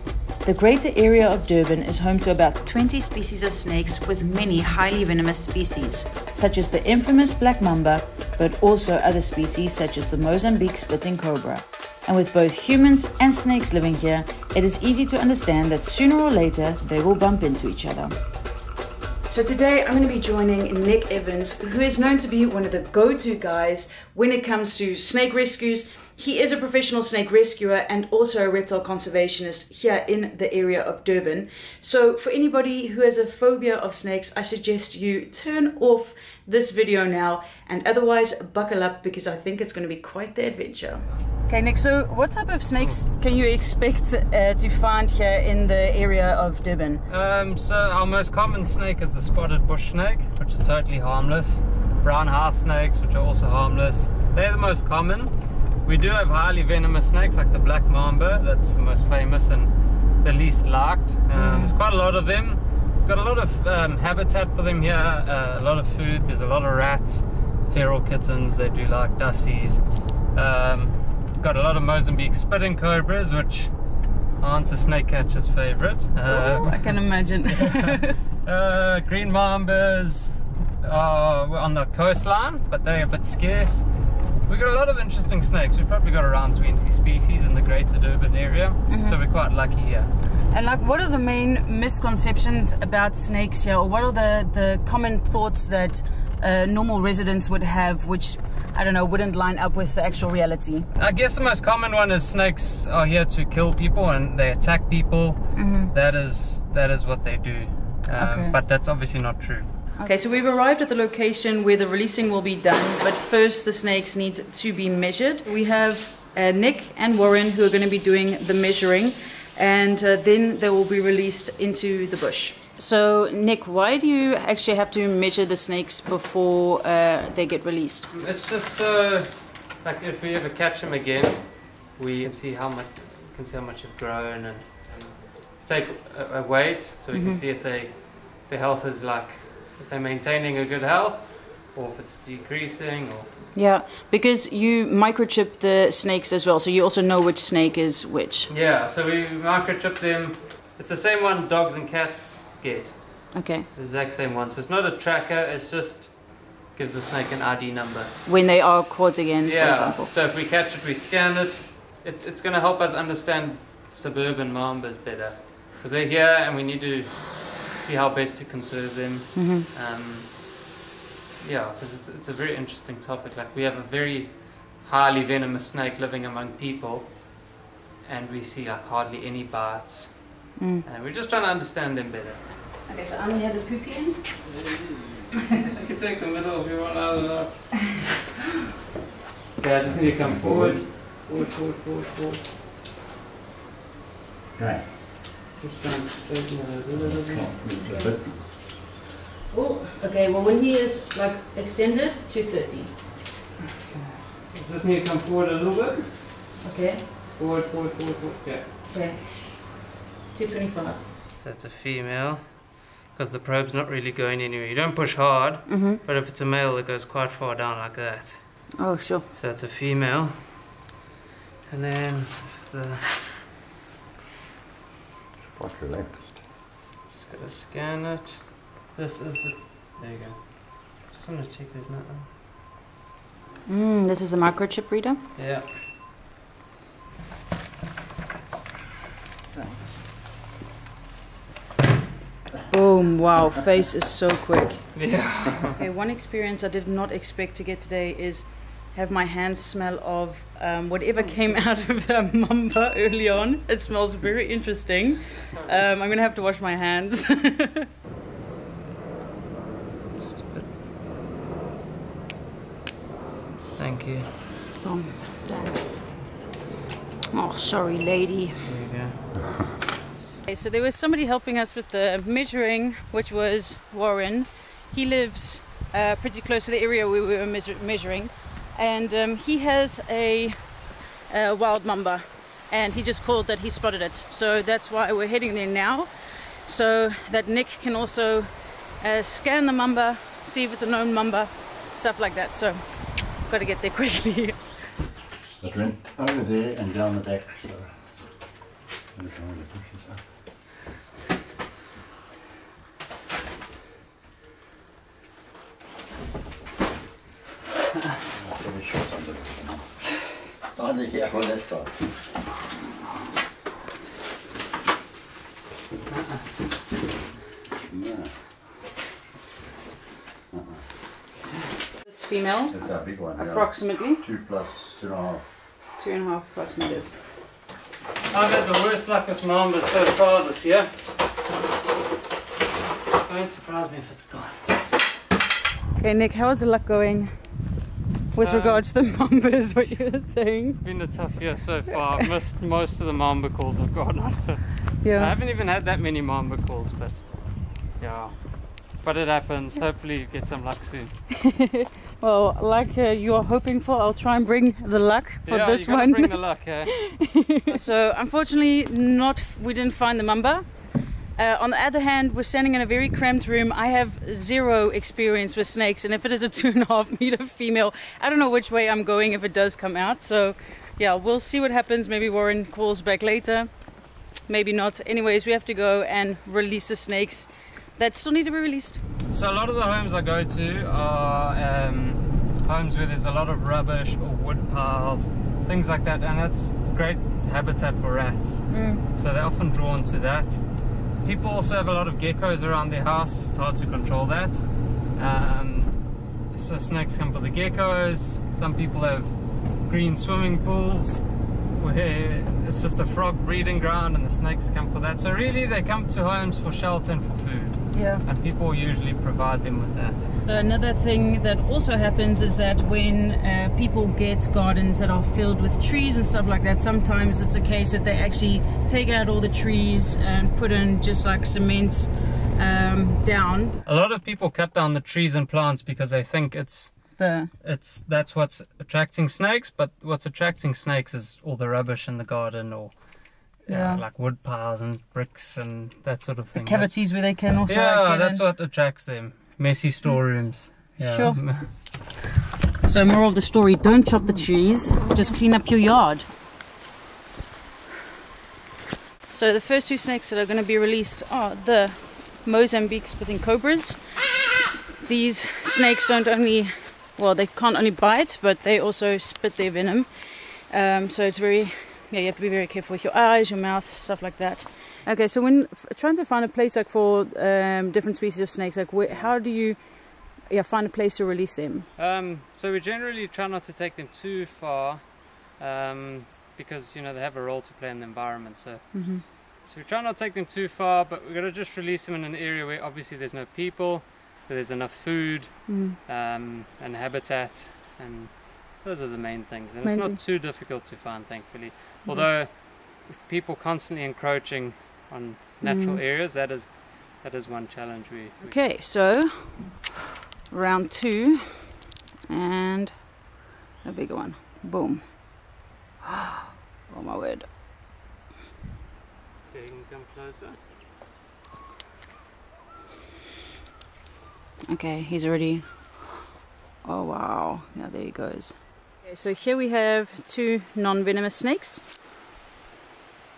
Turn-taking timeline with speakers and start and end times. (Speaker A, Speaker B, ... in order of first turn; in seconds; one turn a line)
Speaker A: 0.5-18.2
Speaker A: 19.3-47.0
Speaker B: 47.1-55.3
Speaker B: 55.9-59.7
Speaker B: 60.2-69.8
Speaker A: 61.4-61.7
Speaker B: 70.3-73.7
Speaker B: 74.4-83.9
Speaker A: 76.3-78.2
Speaker B: 84.5-90.1
Speaker A: 88.9-89.2
Speaker A: 90.5-100.9
Speaker B: 101.0-109.9
Speaker A: 105.5-105.9
Speaker A: 108.2-108.6
Speaker A: 110.0-128.1
Speaker B: 128.1-143.3
Speaker A: 137.1-137.4
Speaker A: 143.5-148.5
Speaker B: 148.5-158.1
Speaker A: 153.3-153.7
Speaker A: 158.2-160.1
Speaker B: 159.4-170.6
Speaker A: 169.3-169.7
Speaker B: 171.4-177.5
Speaker B: 178.0-182.4
Speaker A: 180.6-180.8
Speaker A: 182.9-184.4
Speaker B: 185.4-188.1
Speaker B: 189.6-192.5
Speaker C: 189.8-190.9
Speaker C: 194.6-194.9
Speaker B: 195.6-197.6
Speaker C: 197.0-198.4
Speaker A: 197.8-198.1
Speaker A: 199.5-202.9
Speaker B: 203.9-206.3
Speaker A: 206.6-207.1
Speaker B: 207.4-208.7
Speaker A: 208.9-209.8
Speaker A: 210.3-211.0
Speaker B: 211.4-220.8
Speaker A: 215.7-216.0
Speaker A: 218.8-219.3
Speaker B: 221.7-223.4
Speaker C: 225.5-226.3
Speaker B: 227.1-232.3
Speaker A: 233.7-235.2
Speaker B: 235.4-235.7
Speaker B: 239.5-240.0
Speaker A: 242.7-244.9
Speaker B: 244.9-245.8
Speaker A: 245.8-257.9
Speaker B: 260.2-260.7
Speaker B: 263.8-264.3
Speaker A: 264.8-265.9
Speaker A: 267.3-268.6
Speaker B: 268.6-269.2
Speaker A: 270.4-294.7
Speaker C: 295.6-298.0
Speaker C: 299.1-300.2
Speaker C: 308.3-310.0
Speaker C: 310.6-311.9
Speaker C: 317.9-318.3
Speaker A: 322.0-324.2
Speaker C: 322.7-325.5
Speaker A: 326.0-327.2
Speaker B: 328.3-330.9
Speaker B: 333.2-334.7
Speaker A: 336.0-337.3
Speaker A: 338.3-340.8
Speaker B: 338.4-340.0
Speaker B: 340.8-351.2
Speaker A: 345.0-345.3
Speaker A: 351.6-379.0
Speaker B: 355.5-357.8
Speaker B: 379.3-390.6
Speaker A: 388.7-389.0
Speaker B: 391.2-396.0
Speaker B: 396.5-399.3
Speaker B: 399.9-410.3
Speaker A: 407.9-408.2
Speaker A: 410.4-423.8
Speaker B: 423.9-433.1
Speaker A: 427.2-427.5
Speaker B: 433.6-437.1
Speaker A: 433.7-434.1
Speaker A: 436.6-438.4
Speaker B: 437.7-441.7
Speaker A: 441.0-441.4
Speaker A: 442.8-446.2
Speaker A: 449.3-454.4
Speaker A: 455.0-471.9
Speaker B: 469.1-469.3
Speaker B: 472.0-498.6
Speaker A: 478.9-479.2
Speaker A: 485.7-486.0
Speaker A: 489.8-490.2
Speaker A: 495.6-496.0
Speaker A: 498.4-500.0
Speaker A: 500.5-503.3
Speaker A: 503.8-505.5
Speaker A: 506.9-507.5
Speaker B: 509.4-510.6
Speaker A: 514.7-515.8
Speaker A: 516.8-521.8